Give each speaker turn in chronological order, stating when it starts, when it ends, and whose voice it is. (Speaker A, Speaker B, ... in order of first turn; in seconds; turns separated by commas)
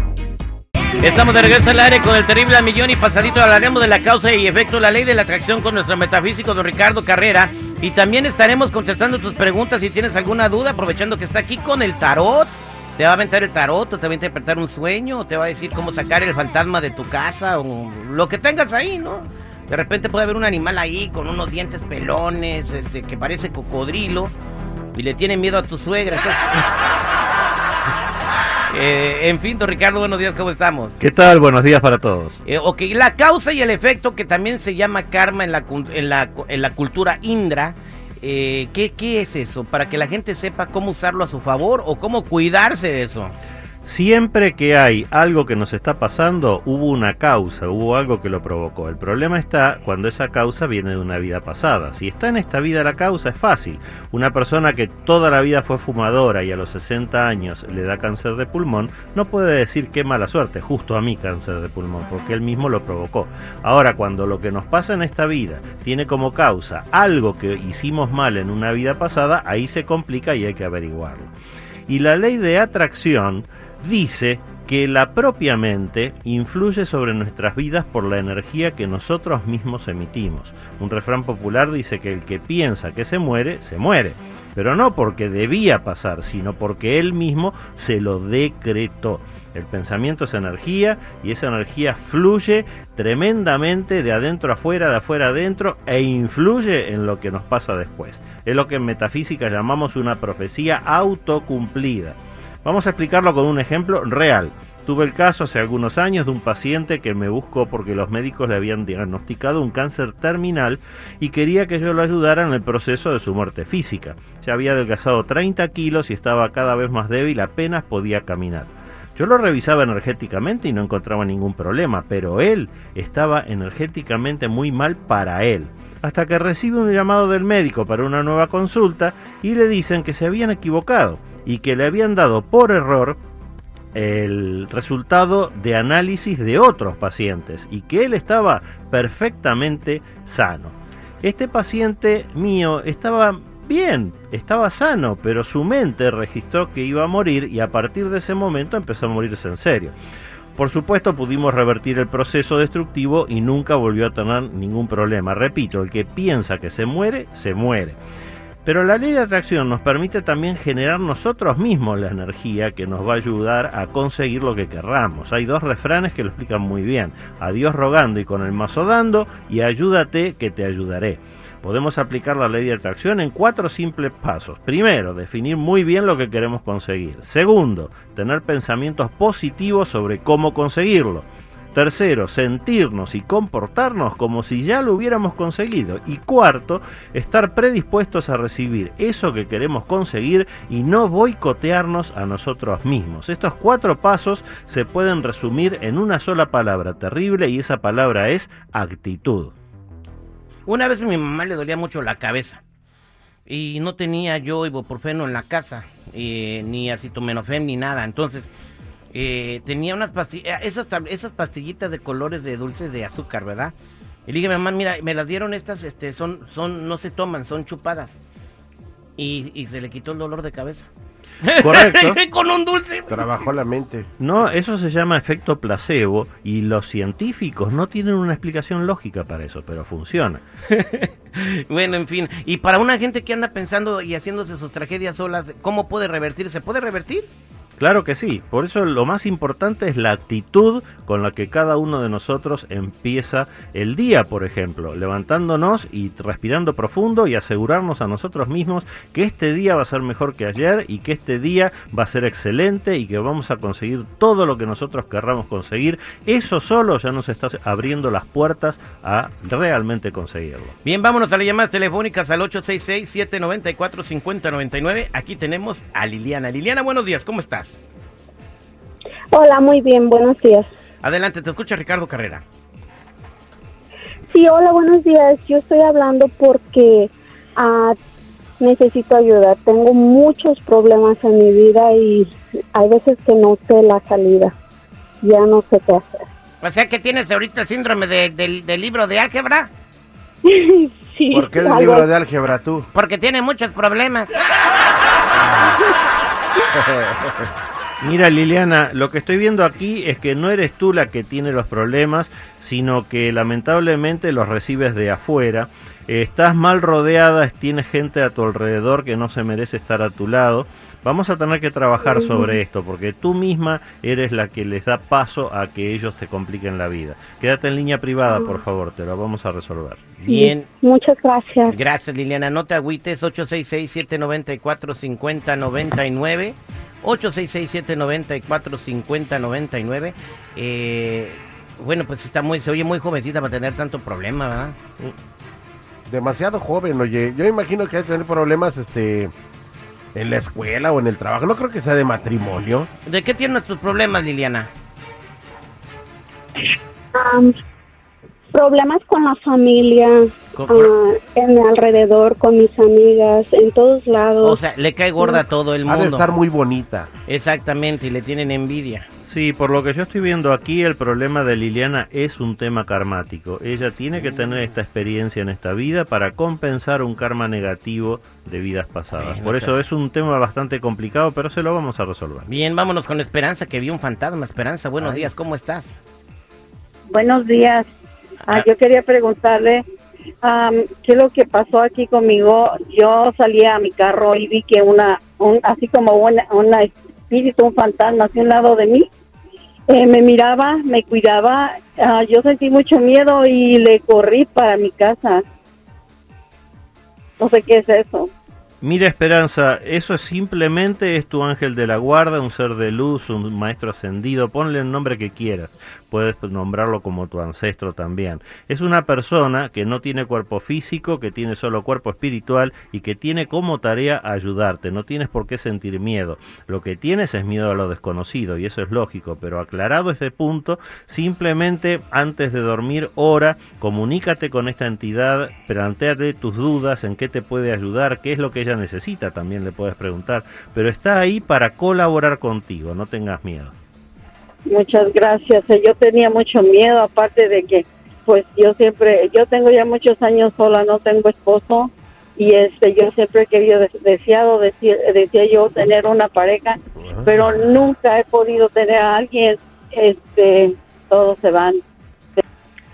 Speaker A: 1.0-24.3, Speaker A: 24.9-26.7, Speaker A: 28.7-31.0, Speaker B: 31.0-32.4, Speaker A: 32.5-43.3, Speaker B: 43.8-71.3, Speaker B: 71.9-133.2, Speaker B: 133.9-149.9, Speaker B: 150.6-158.0, Speaker B: 158.7-199.5, Speaker A: 200.7-202.6, Speaker A: 203.5-208.5, Speaker A: 209.1-213.7, Speaker A: 214.3-218.2, Speaker A: 219.2-220.9, Speaker A: 221.4-223.5, Speaker B: 221.6-222.2, Speaker C: 223.1-224.1, Speaker B: 224.2-230.4, Speaker A: 230.7-237.3, Speaker B: 237.8-260.8, Speaker A: 260.9-267.8, Speaker D: 269.3-270.7, Speaker A: 271.0-272.4, Speaker D: 274.3-278.0, Speaker D: 278.6-284.5, Speaker D: 285.2-286.3, Speaker A: 286.6-289.7, Speaker D: 290.4-292.1, Speaker C: 291.3-292.9, Speaker A: 292.9-294.3, Speaker C: 296.7-297.4, Speaker B: 298.0-320.1, Speaker D: 312.0-312.6, Speaker D: 318.3-318.6, Speaker A: 320.2-320.7, Speaker D: 320.3-321.8, Speaker A: 321.7-334.8, Speaker C: 336.1-339.3, Speaker C: 340.1-342.9, Speaker A: 343.1-344.7, Speaker D: 347.1-347.6, Speaker D: 348.5-354.6, Speaker A: 350.6-350.9, Speaker A: 354.4-356.3, Speaker D: 355.2-355.4, Speaker C: 355.9-357.1, Speaker A: 357.3-359.1, Speaker B: 359.2-372.5, Speaker A: 369.1-369.8, Speaker A: 372.5-376.0, Speaker E: 377.1-377.9, Speaker E: 378.5-379.8, Speaker E: 380.4-389.1, Speaker E: 389.9-395.4, Speaker E: 397.4-398.3, Speaker B: 398.8-433.7, Speaker E: 434.7-451.8, Speaker C: 447.0-447.5